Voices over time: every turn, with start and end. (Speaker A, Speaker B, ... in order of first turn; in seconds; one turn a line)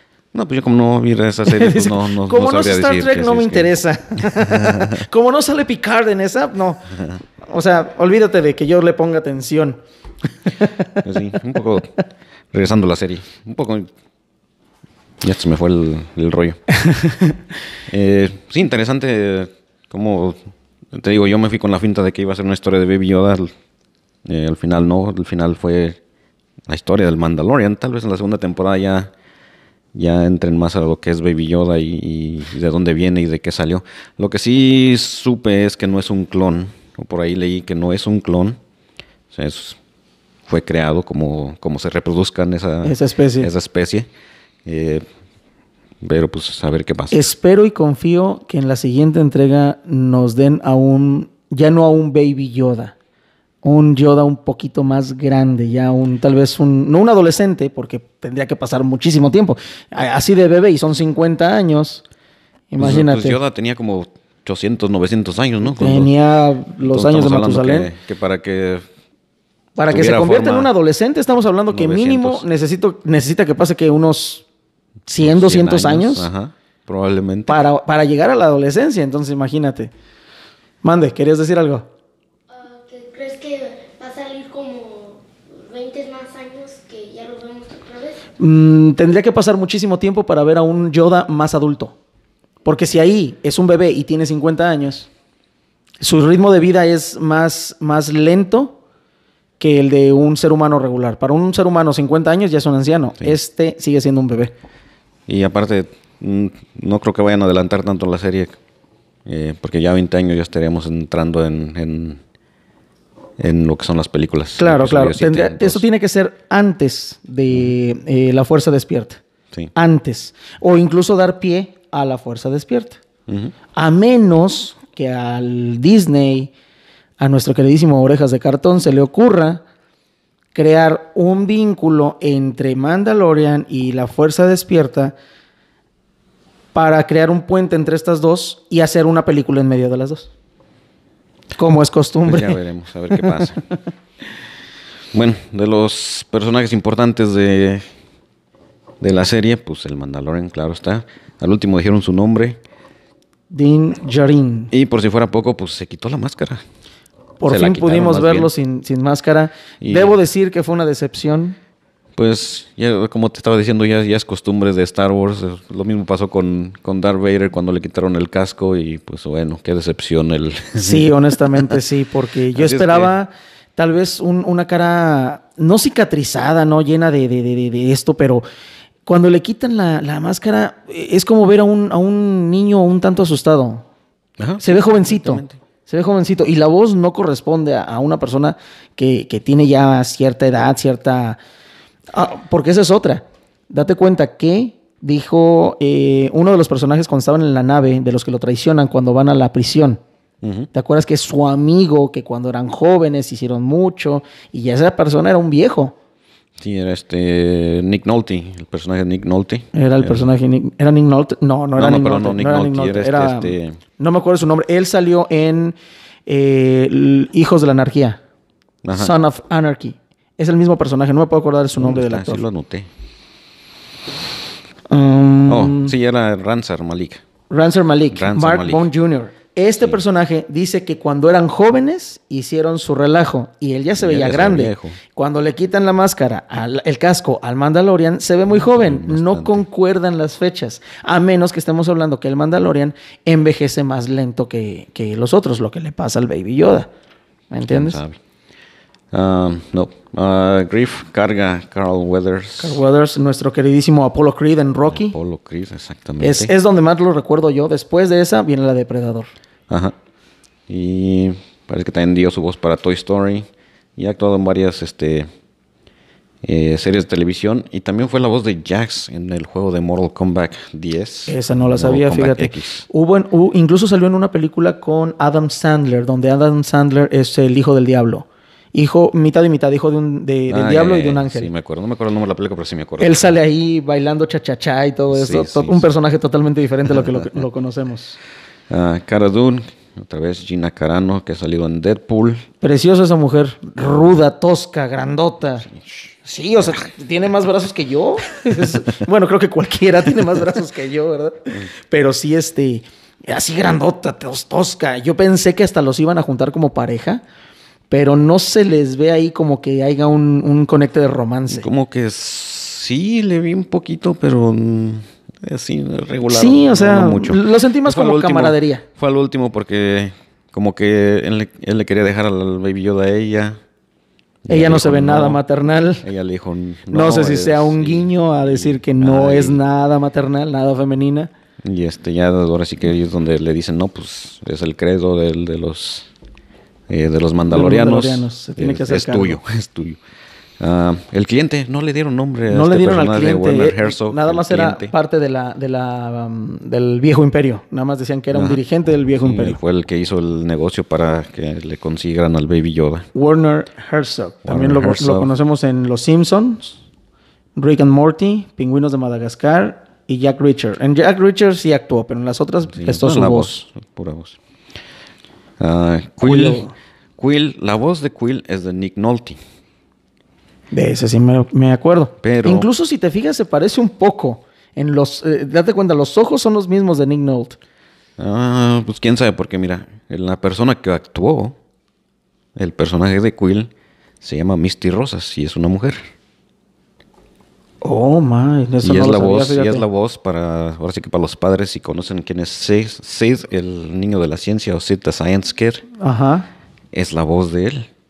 Speaker A: 0.3-3.7
Speaker B: 1.5-6.9
Speaker A: 4.4-4.9
Speaker B: 7.4-9.8
Speaker B: 10.5-11.0
Speaker A: 11.0-12.0
Speaker A: 12.5-13.9
Speaker A: 15.2-16.6
Speaker A: 17.9-20.4
Speaker A: 20.9-23.5
Speaker A: 24.2-26.0
Speaker A: 26.7-29.1
Speaker A: 29.9-38.6
Speaker A: 39.3-39.8
Speaker A: 40.5-44.1
Speaker B: 42.8-43.5
Speaker A: 44.6-45.1
Speaker A: 46.0-47.2
Speaker B: 47.1-53.0
Speaker B: 53.6-62.0
Speaker B: 62.7-63.4
Speaker A: 62.8-66.1
Speaker B: 65.7-67.9
Speaker A: 66.8-68.9
Speaker B: 69.8-74.4
Speaker A: 69.9-70.7
Speaker A: 71.7-72.5
Speaker B: 75.1-76.3
Speaker A: 75.2-77.6
Speaker B: 77.5-79.9
Speaker B: 80.8-81.9
Speaker C: 82.5-88.2
Speaker B: 88.4-92.0
Speaker B: 92.7-95.1
Speaker B: 96.0-98.8
Speaker B: 99.6-104.5
Speaker A: 105.3-108.6
Speaker A: 109.2-112.2
Speaker A: 113.4-115.8
Speaker B: 114.6-119.2
Speaker B: 119.8-123.0
Speaker A: 123.3-123.5
Speaker B: 123.8-126.5
Speaker B: 127.2-129.6
Speaker B: 130.5-135.2
Speaker B: 136.7-140.3
Speaker B: 141.6-142.6
Speaker A: 142.2-143.6
Speaker A: 145.1-147.8
Speaker A: 149.0-152.6
Speaker B: 153.5-154.7
Speaker A: 154.7-156.6
Speaker B: 157.4-161.6
Speaker A: 157.5-158.5
Speaker A: 159.8-160.1
Speaker A: 162.2-171.7
Speaker B: 170.8-178.4
Speaker A: 172.5-173.1
Speaker B: 179.1-183.9
Speaker A: 184.4-185.6
Speaker B: 184.6-191.4
Speaker B: 192.1-200.0
Speaker A: 200.4-200.7
Speaker B: 200.7-205.9
Speaker A: 206.6-210.3
Speaker B: 209.7-218.2
Speaker A: 211.8-213.8
Speaker A: 218.8-219.2
Speaker B: 218.9-222.4
Speaker A: 221.8-222.9
Speaker B: 224.9-225.9
Speaker A: 225.5-227.2
Speaker B: 227.5-246.9
Speaker A: 228.1-228.9
Speaker A: 234.0-235.0
Speaker A: 238.5-239.6
Speaker B: 247.5-248.0
Speaker A: 247.7-248.2
Speaker A: 249.1-252.8
Speaker B: 252.6-255.2
Speaker A: 254.9-256.5
Speaker B: 256.2-259.3
Speaker A: 259.7-259.9
Speaker A: 260.7-265.3
Speaker A: 266.4-272.9
Speaker B: 271.3-281.5
Speaker A: 280.5-283.3
Speaker B: 283.0-288.2
Speaker A: 285.1-285.9
Speaker A: 286.9-287.2
Speaker A: 288.7-292.5
Speaker B: 292.6-295.7
Speaker A: 295.7-296.1
Speaker B: 296.2-307.2
Speaker B: 307.9-311.7
Speaker A: 311.5-323.6
Speaker B: 316.3-318.8
Speaker A: 324.4-325.4
Speaker B: 324.5-326.1
Speaker A: 326.0-329.6
Speaker B: 326.9-331.3
Speaker A: 331.6-336.1
Speaker A: 336.9-340.0
Speaker B: 337.5-339.4
Speaker A: 340.6-344.9
Speaker B: 342.5-349.6
Speaker A: 348.3-348.6
Speaker A: 349.2-353.1
Speaker B: 353.1-356.8
Speaker A: 354.4-355.3
Speaker B: 357.6-363.5
Speaker A: 362.7-364.4
Speaker A: 365.6-366.6
Speaker B: 366.2-366.7
Speaker A: 367.2-369.4
Speaker B: 370.7-377.6
Speaker A: 372.2-372.7
Speaker A: 378.2-381.6
Speaker A: 382.6-386.0
Speaker B: 387.8-389.9
Speaker A: 388.8-395.9
Speaker B: 396.0-396.5
Speaker A: 396.9-397.9